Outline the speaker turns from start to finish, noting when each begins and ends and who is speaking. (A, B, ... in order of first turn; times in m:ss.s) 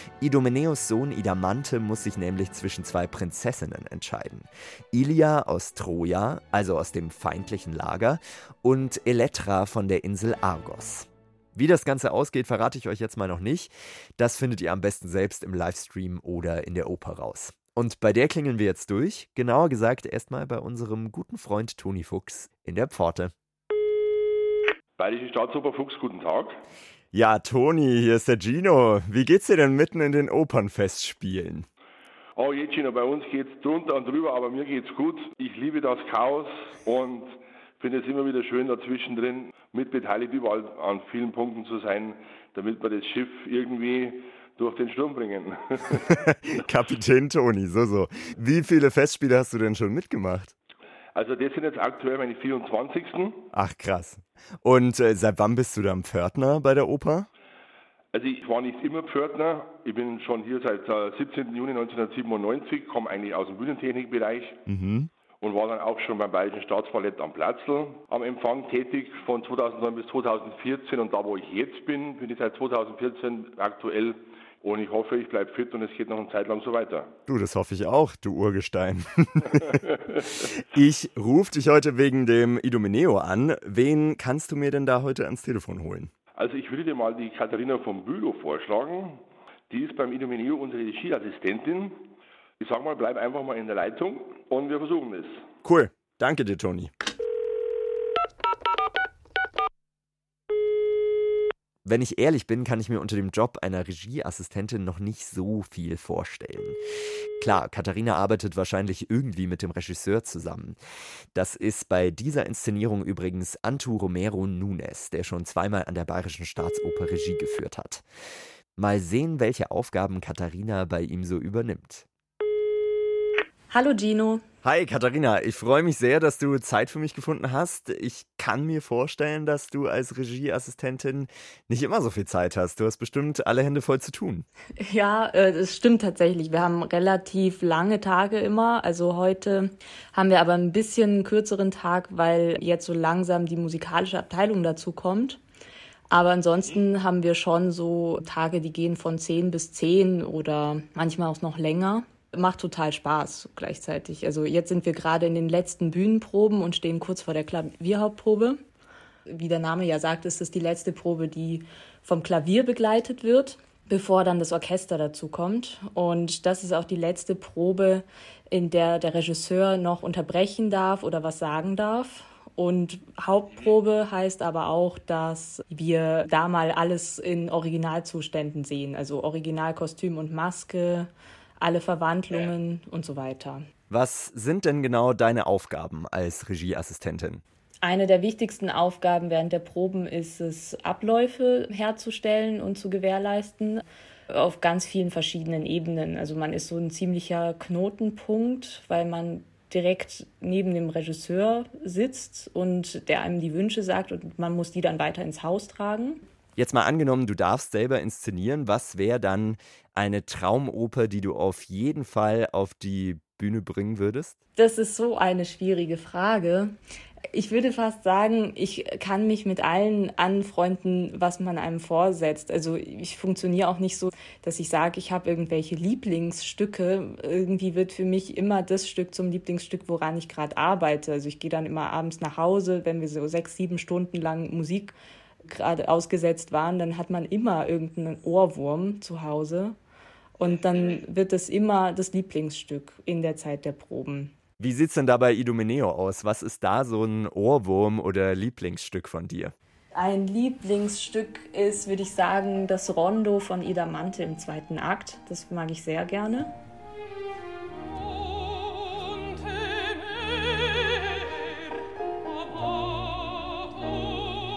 0:00.2-0:23.3 A
0:25.0-0:26.6 B
0:27.1-0:31.7 A
0:32.4-0:46.0 B
0:45.9-0:50.6 A
0:51.1-0:53.4 B
0:53.5-0:57.3 A
0:58.1-1:04.6 B
1:04.7-1:05.1 A
1:05.4-1:17.1 B
1:17.3-1:26.1 A
1:26.4-1:32.1 B
1:32.6-1:35.4 B
1:35.6-1:36.9 A
1:41.8-1:46.8 A
1:47.4-1:50.8 A
1:51.4-1:58.0 A
1:58.8-2:02.0 A
2:03.7-2:04.4 C
2:04.6-2:14.5 A
2:14.8-2:25.4 C
2:26.1-2:38.6 C
2:39.3-3:03.6 C
3:03.9-3:07.4 A
3:07.8-3:26.2 C
3:26.6-3:34.4 A
3:34.6-3:36.7 C
3:37.3-3:59.8 C
4:00.4-4:04.4 C
4:04.6-4:09.5 A
4:09.9-4:16.5 C